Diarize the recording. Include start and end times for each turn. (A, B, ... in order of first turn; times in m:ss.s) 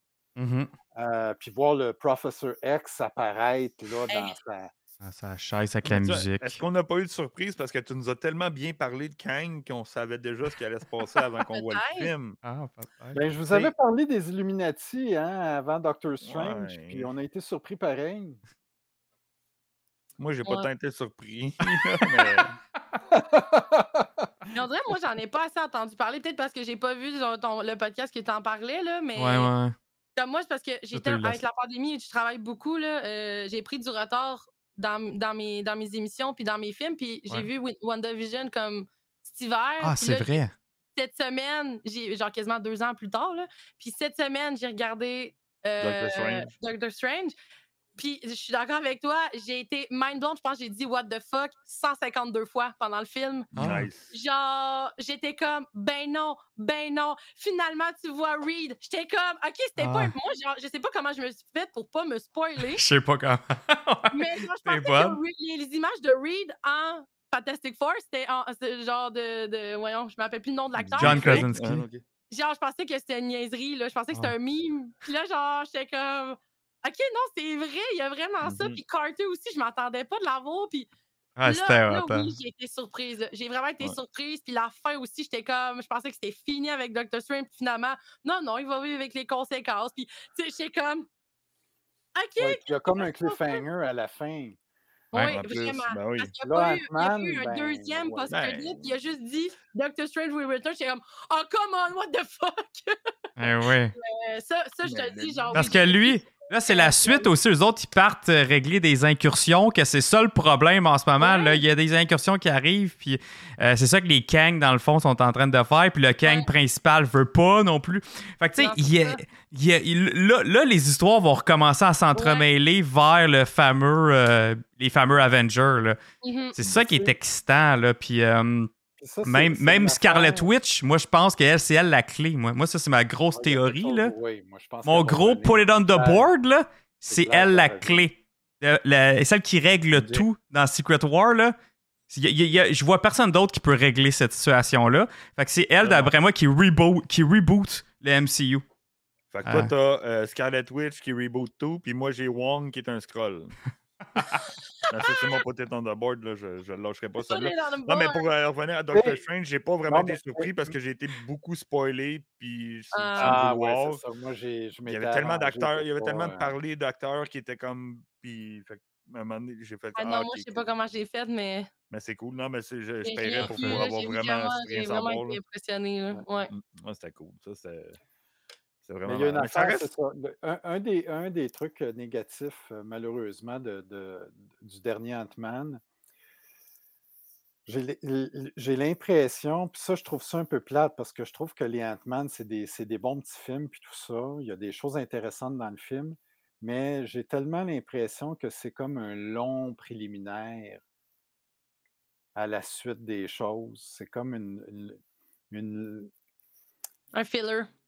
0:00.4-0:00.7 A
0:01.0-0:04.7 B
0:04.1-0:04.3 C
0:05.0-0:06.6 A
0:05.8-0:12.4 D
0:11.5-0:12.1 C
0:12.4-0:13.2 A
0:13.1-0:18.4 B
0:16.2-0:17.1 D
0:20.2-0:22.5 D
0:22.2-0:22.4 A
0:23.1-0:24.3 B
0:24.5-0:29.5 C
0:29.2-0:29.7 A
0:30.2-0:40.4 C
0:30.9-0:31.4 A
0:39.8-0:40.5 A
0:41.0-0:47.3 C
0:45.8-0:46.5 D
0:48.0-0:53.5 C
0:53.5-0:54.1 D
0:53.6-0:53.9 A
0:54.1-1:02.8 C
0:59.8-1:00.1 A
1:02.6-1:05.2 A
1:04.1-1:11.5 C
1:10.8-1:12.0 D
1:10.9-1:11.8 A
1:12.3-1:20.9 C
1:18.4-1:18.8 D
1:21.4-1:22.3 A
1:21.4-1:31.1 C
1:32.2-1:33.6 C
1:32.4-1:34.6 B
1:35.1-1:47.3 C
1:35.1-1:35.4 A
1:35.2-1:36.3 D
1:36.4-1:38.3 B
1:38.3-1:38.9 D
1:43.4-1:43.9 A
1:44.8-1:45.8 D
1:45.5-2:06.0 A
1:51.2-1:51.6 C
1:58.6-1:59.2 C
2:02.1-2:02.4 C
2:06.2-2:06.6 C
2:06.5-2:08.7 A
2:06.6-2:07.1 B
2:09.0-2:10.5 B
2:09.2-2:14.1 A
2:13.3-2:16.3 B
2:14.8-2:21.5 A
2:17.1-2:18.1 B
2:19.9-2:20.2 D
2:22.1-2:28.6 A
2:25.8-2:26.1 D
2:29.3-2:33.5 D
2:29.4-2:29.7 A
2:34.2-2:35.4 C
2:34.9-2:44.0 D
2:37.2-2:38.2 C
2:38.9-2:39.2 B
2:39.9-2:40.7 B
2:42.9-2:43.4 C
2:43.2-2:46.5 B
2:44.8-2:50.6 D
2:49.9-2:51.7 C
2:51.9-2:55.4 D
2:53.0-2:56.5 C
2:53.4-2:53.8 A
2:56.5-2:58.0 D
2:58.8-2:59.9 D
2:59.0-3:05.8 B
3:07.6-3:20.8 B
3:22.4-3:25.0 B
3:25.5-3:26.1 B
3:27.1-3:27.7 C